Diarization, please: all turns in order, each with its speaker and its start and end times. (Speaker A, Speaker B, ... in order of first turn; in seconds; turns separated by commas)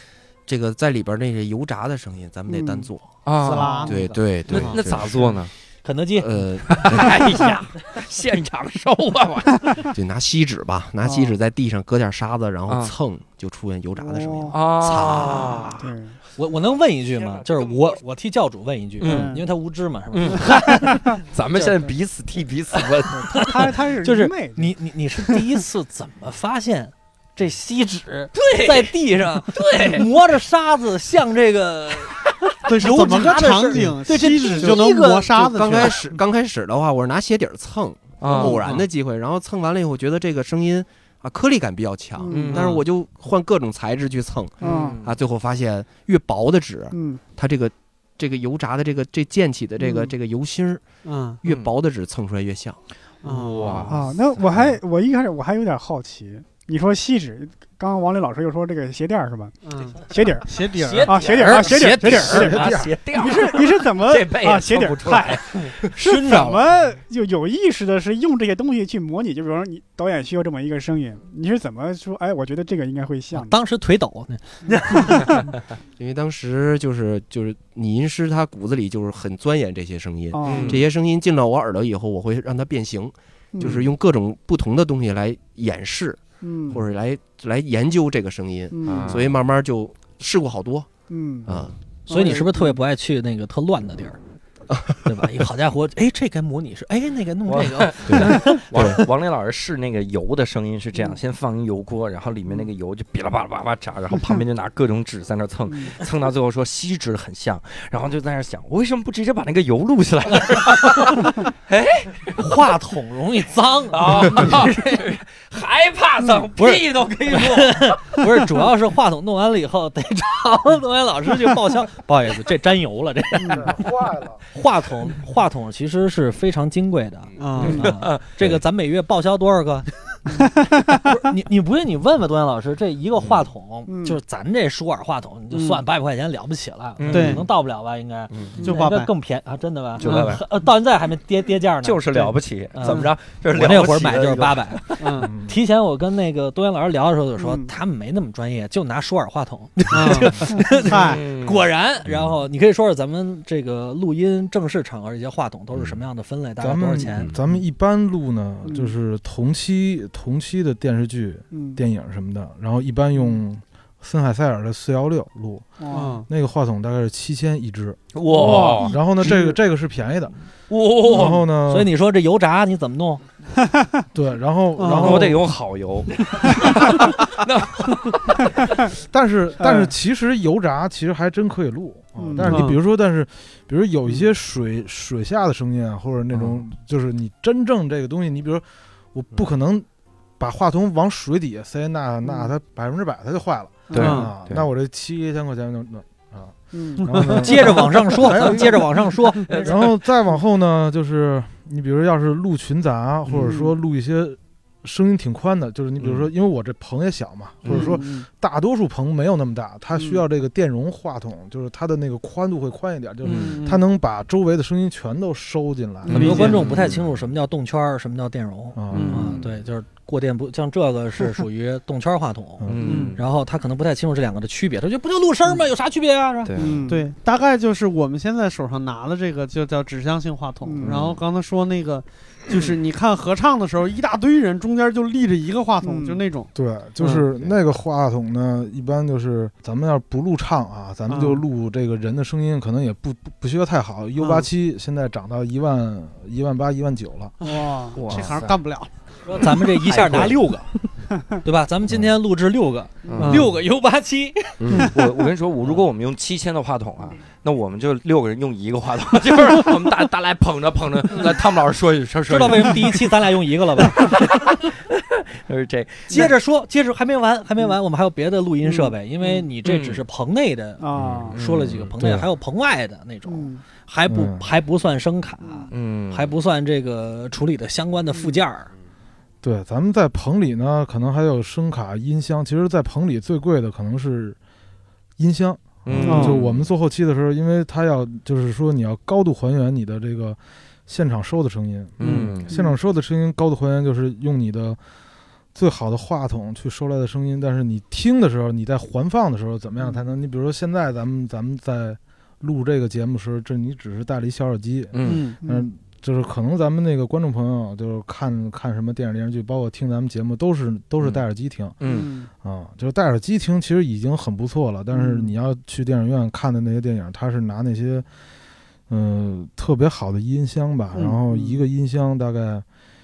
Speaker A: 0.5-5.4, Speaker B: 2.5-2.9, Speaker C: 3.2-3.8, Speaker D: 3.4-4.7, Speaker B: 3.5-3.9, Speaker E: 3.9-4.2, Speaker C: 4.4-5.5, Speaker E: 5.8-6.7, Speaker A: 6.2-7.6, Speaker C: 6.7-9.9, Speaker A: 9.9-15.7, Speaker B: 11.0-11.4, Speaker C: 12.7-12.9, Speaker B: 14.0-14.6, Speaker C: 14.5-15.8, Speaker B: 15.4-16.2, Speaker E: 16.4-21.8, Speaker C: 17.2-17.9, Speaker C: 19.0-19.4, Speaker B: 19.0-19.4, Speaker C: 20.1-23.5, Speaker B: 20.9-21.2, Speaker B: 23.2-25.6, Speaker E: 23.3-35.3, Speaker C: 28.3-28.9, Speaker C: 29.5-30.1, Speaker D: 32.6-36.1, Speaker A: 35.4-50.9, Speaker C: 38.2-38.6, Speaker D: 38.3-38.9, Speaker B: 42.2-42.6, Speaker C: 42.3-42.7, Speaker D: 42.5-42.8, Speaker B: 44.6-45.0, Speaker C: 44.6-45.1, Speaker B: 46.9-47.2, Speaker B: 49.8-50.1, Speaker D: 51.0-51.4, Speaker A: 51.4-52.8, Speaker C: 51.4-51.7, Speaker D: 53.2-53.9, Speaker C: 53.2-54.1, Speaker B: 53.9-60.5, Speaker D: 59.6-61.3, Speaker E: 60.8-62.6, Speaker C: 60.8-65.8, Speaker B: 61.0-73.5, Speaker F: 62.4-62.9, Speaker E: 66.0-66.7, Speaker E: 73.3-75.4, Speaker B: 74.7-75.3, Speaker A: 76.0-91.7, Speaker B: 80.3-80.8, Speaker C: 80.4-80.8, Speaker B: 83.5-83.9, Speaker B: 86.4-86.8, Speaker B: 88.7-89.3, Speaker C: 88.8-89.3, Speaker B: 91.1-91.6, Speaker E: 92.1-94.2, Speaker B: 92.1-92.5, Speaker A: 94.7-95.0, Speaker E: 95.0-98.6, Speaker C: 97.5-112.5, Speaker A: 98.0-99.0, Speaker B: 105.7-106.0, Speaker E: 110.8-111.1, Speaker E: 112.4-114.7, Speaker C: 113.9-118.5, Speaker E: 116.5-157.3, Speaker B: 123.4-123.7, Speaker F: 123.7-124.4, Speaker D: 127.4-127.8, Speaker C: 127.6-128.6, Speaker B: 127.7-127.9, Speaker B: 130.3-131.2, Speaker B: 133.9-134.2, Speaker D: 135.5-135.8, Speaker C: 137.0-137.4, Speaker D: 137.1-137.4, Speaker A: 138.3-138.6, Speaker D: 138.6-139.1, Speaker C: 140.0-140.4, Speaker D: 140.0-140.4, Speaker C: 141.8-145.2, Speaker D: 145.0-145.3, Speaker F: 145.2-145.5, Speaker B: 147.4-147.7, Speaker D: 149.9-151.2, Speaker C: 151.0-151.6, Speaker F: 156.6-170.3, Speaker B: 158.6-158.9, Speaker B: 161.5-161.8, Speaker B: 165.8-166.2, Speaker D: 165.9-166.3, Speaker C: 168.1-168.9, Speaker B: 168.6-168.9, Speaker C: 170.7-171.4, Speaker F: 171.1-171.9, Speaker E: 171.7-173.2, Speaker F: 174.1-175.4, Speaker D: 174.8-175.4, Speaker C: 174.9-178.5, Speaker F: 179.0-189.8, Speaker B: 182.2-182.7, Speaker D: 182.4-182.8, Speaker C: 186.3-186.6, Speaker F: 190.4-216.5, Speaker B: 192.2-192.5, Speaker B: 193.9-194.2, Speaker D: 193.9-194.3, Speaker C: 193.9-194.7, Speaker B: 196.7-197.1, Speaker E: 197.3-199.8, Speaker C: 207.6-208.0, Speaker B: 207.7-208.2, Speaker B: 209.9-210.2, Speaker C: 213.2-213.6, Speaker D: 213.2-213.8, Speaker C: 216.1-217.2, Speaker D: 216.1-216.7, Speaker E: 216.1-226.5, Speaker F: 218.8-219.3, Speaker D: 218.9-219.4, Speaker F: 222.6-223.1, Speaker C: 222.7-223.2, Speaker C: 226.4-226.9, Speaker B: 226.6-227.1, Speaker D: 226.9-237.2, Speaker B: 230.6-231.0, Speaker C: 230.8-231.2, Speaker B: 235.8-236.2, Speaker F: 236.5-247.3, Speaker D: 241.1-241.4, Speaker D: 244.2-244.4, Speaker D: 247.4-248.9, Speaker B: 247.5-248.0, Speaker C: 247.9-248.6, Speaker E: 249.2-250.7, Speaker C: 249.7-250.5, Speaker E: 251.4-254.6, Speaker C: 253.0-253.5, Speaker D: 253.2-253.6, Speaker A: 254.6-255.0, Speaker C: 254.7-263.1, Speaker E: 262.3-264.3, Speaker C: 263.9-266.3, Speaker E: 266.1-278.7, Speaker B: 268.6-268.9, Speaker C: 269.6-270.0, Speaker B: 270.8-271.4, Speaker C: 271.3-271.9, Speaker F: 272.0-272.3, Speaker B: 273.2-273.6, Speaker F: 274.1-274.5, Speaker B: 275.4-275.7, Speaker C: 275.7-276.3, Speaker F: 279.4-284.4, Speaker F: 285.2-294.8, Speaker C: 285.9-286.7, Speaker D: 286.0-286.4, Speaker C: 292.0-292.5, Speaker D: 292.0-292.3, Speaker B: 292.5-292.7, Speaker F: 295.5-311.8, Speaker C: 304.9-305.3, Speaker D: 305.0-305.4, Speaker B: 305.4-305.7, Speaker C: 311.8-312.1, Speaker B: 311.9-312.2, Speaker F: 312.4-318.1, Speaker F: 318.9-322.6, Speaker B: 321.0-321.6